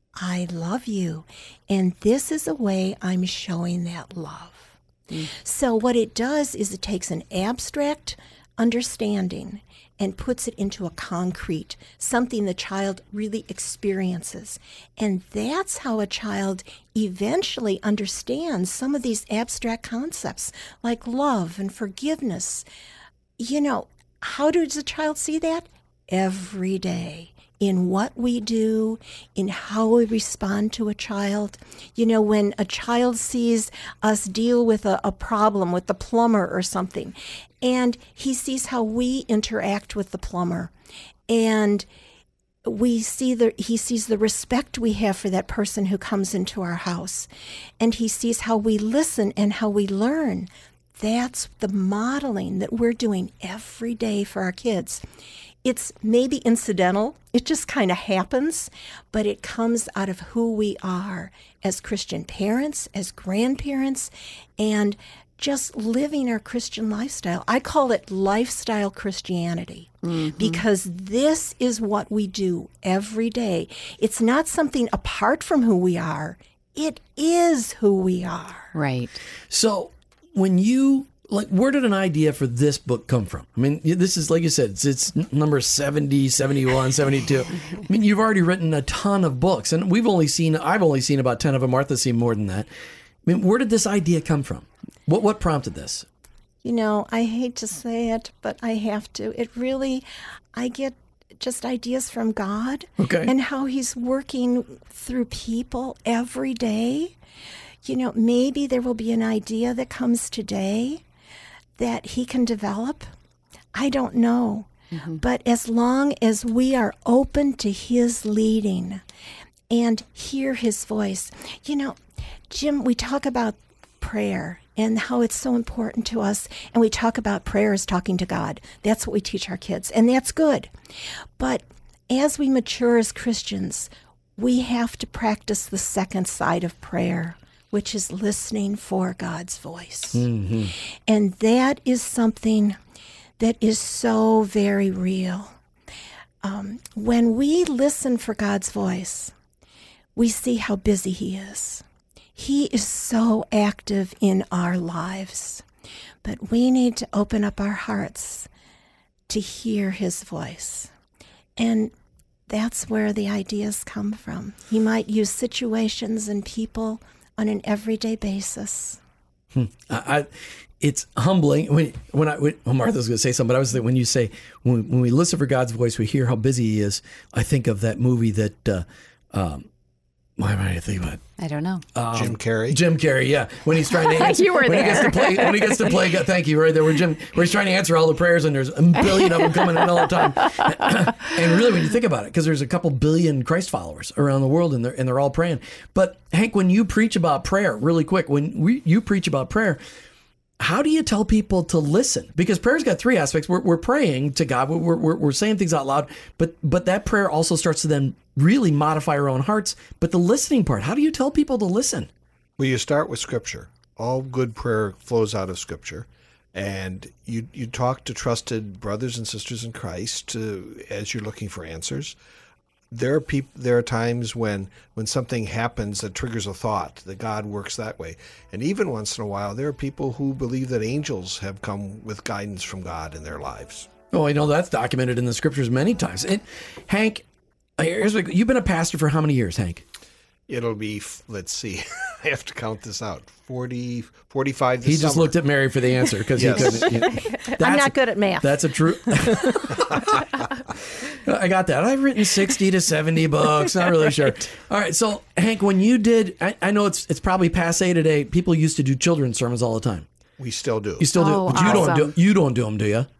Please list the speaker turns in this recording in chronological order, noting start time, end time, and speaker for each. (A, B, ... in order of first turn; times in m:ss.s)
0:00.2-0:04.7 A
0:05.3-0:22.6 A
0:23.4-0:40.7 A
0:41.3-0:41.9 A
0:42.6-0:47.3 A
0:47.8-0:55.0 A
0:55.6-1:18.7 A
1:10.0-1:10.6 B
1:18.7-1:19.2 B
1:19.5-1:32.7 C
1:33.2-1:36.0 C
1:36.6-1:47.1 A
1:43.0-1:43.3 C
1:47.8-1:51.0 A
1:51.8-1:53.1 A
1:53.7-1:59.0 A
1:54.9-1:55.2 B
1:59.7-2:02.0 A
2:02.5-2:10.7 A
2:11.4-2:20.2 A
2:20.1-2:20.7 C
2:21.1-2:22.8 A
2:23.4-2:25.6 A
2:26.4-2:29.3 A
2:30.2-2:31.8 A
2:32.4-2:35.6 A
2:36.2-2:38.5 A
2:39.3-2:40.9 A
2:41.6-2:41.9 A
2:42.5-2:49.0 A
2:49.5-2:50.3 C
2:50.8-2:59.7 C
3:00.4-3:01.2 C
3:01.4-3:01.8 B
3:01.9-3:19.8 C
3:02.1-3:02.8 D
3:03.9-3:06.0 B
3:09.0-3:11.3 B
3:20.6-3:32.1 C
3:32.6-3:42.2 D
3:42.9-3:53.9 D
3:54.1-3:57.2 C
3:57.8-3:59.8 C
4:00.5-4:05.4 D
4:04.8-4:10.2 C
4:06.3-4:07.0 D
4:06.6-4:09.6 A
4:11.0-4:20.0 C
4:20.4-4:21.9 D
4:21.0-4:23.1 C
4:21.1-4:22.1 B